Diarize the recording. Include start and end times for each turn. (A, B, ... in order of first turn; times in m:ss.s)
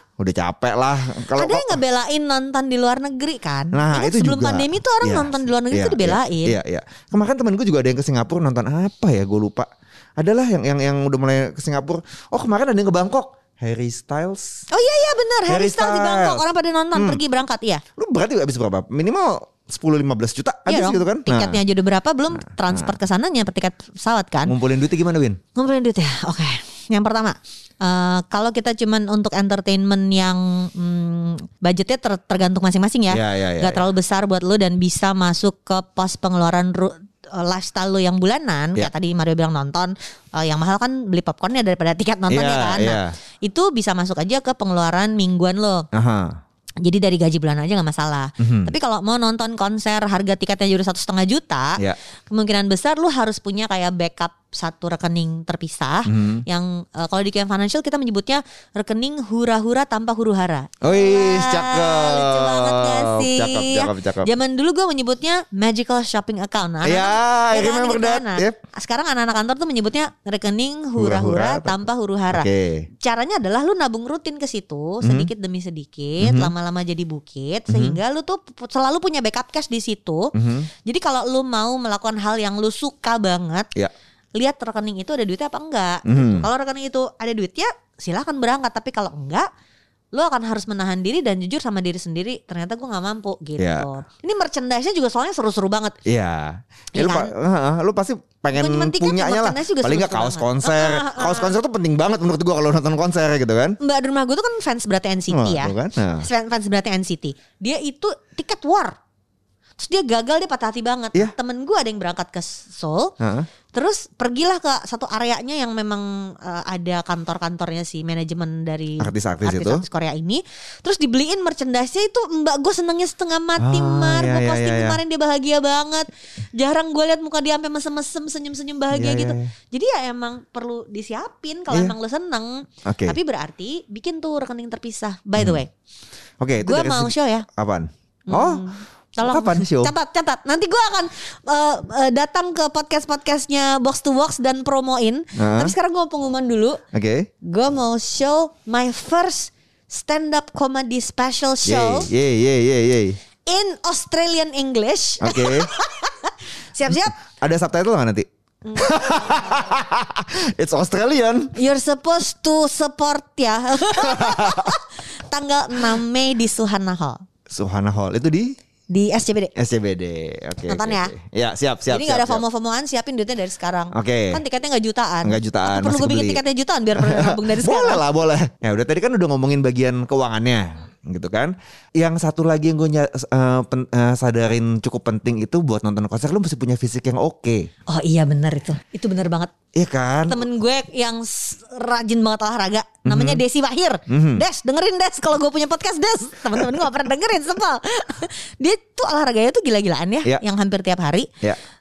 0:00.2-0:01.8 A
0:01.3-0:06.6 B
0:03.7-0:14.6 A
0:14.7-0:17.8 B
0:15.5-0:17.2 A
0:18.0-0:21.6 A
0:20.7-0:24.5 B
0:22.5-0:23.0 A
0:24.4-0:25.4 A
0:25.5-0:45.9 B
0:33.1-0:33.9 A
0:42.3-0:43.1 A
0:45.9-0:46.4 A
0:46.8-1:12.5 B
0:48.4-0:48.7 A
0:56.1-0:56.4 A
1:00.8-1:04.3 A
1:06.8-1:08.6 A
1:11.0-1:12.9 A
1:13.0-1:20.3 B
1:15.0-1:15.3 A
1:16.2-1:16.5 A
1:17.7-1:18.0 A
1:20.3-1:20.7 A
1:20.8-1:23.7 B
1:24.4-1:29.5 B
1:26.0-1:26.5 A
1:30.1-1:36.0 B
1:33.6-1:33.9 A
1:36.0-1:43.8 A
1:36.9-1:37.3 B
1:38.5-1:41.6 B
1:43.8-1:48.9 B
1:45.3-1:46.3 A
1:49.8-1:53.1 B
1:53.2-1:53.5 A
1:53.7-2:15.7 B
1:59.0-1:59.8 A
2:03.6-2:05.0 A
2:08.9-2:09.5 A
2:11.7-2:11.9 A
2:12.8-2:13.2 A
2:16.4-2:18.7 A
2:16.6-2:17.4 B
2:18.3-2:26.8 B
2:19.2-2:19.9 A
2:25.4-2:25.7 A
2:26.9-2:27.3 A
2:27.4-2:32.1 B
2:31.6-2:33.2 A
2:33.4-2:37.1 B
2:35.2-2:35.7 A
2:36.9-2:41.5 A
2:38.6-2:39.8 B
2:41.6-2:47.2 B
2:43.8-2:44.8 A
2:47.5-2:48.5 A
2:48.9-2:49.5 B
2:49.6-2:52.4 A
2:50.7-2:51.1 B
2:51.9-2:58.0 B
2:53.9-2:54.4 A
2:55.2-2:56.4 A
2:56.9-3:07.7 A
3:07.9-3:09.5 B
3:09.7-3:10.4 A
3:10.3-3:21.3 B
3:13.0-3:13.4 A
3:14.1-3:14.4 A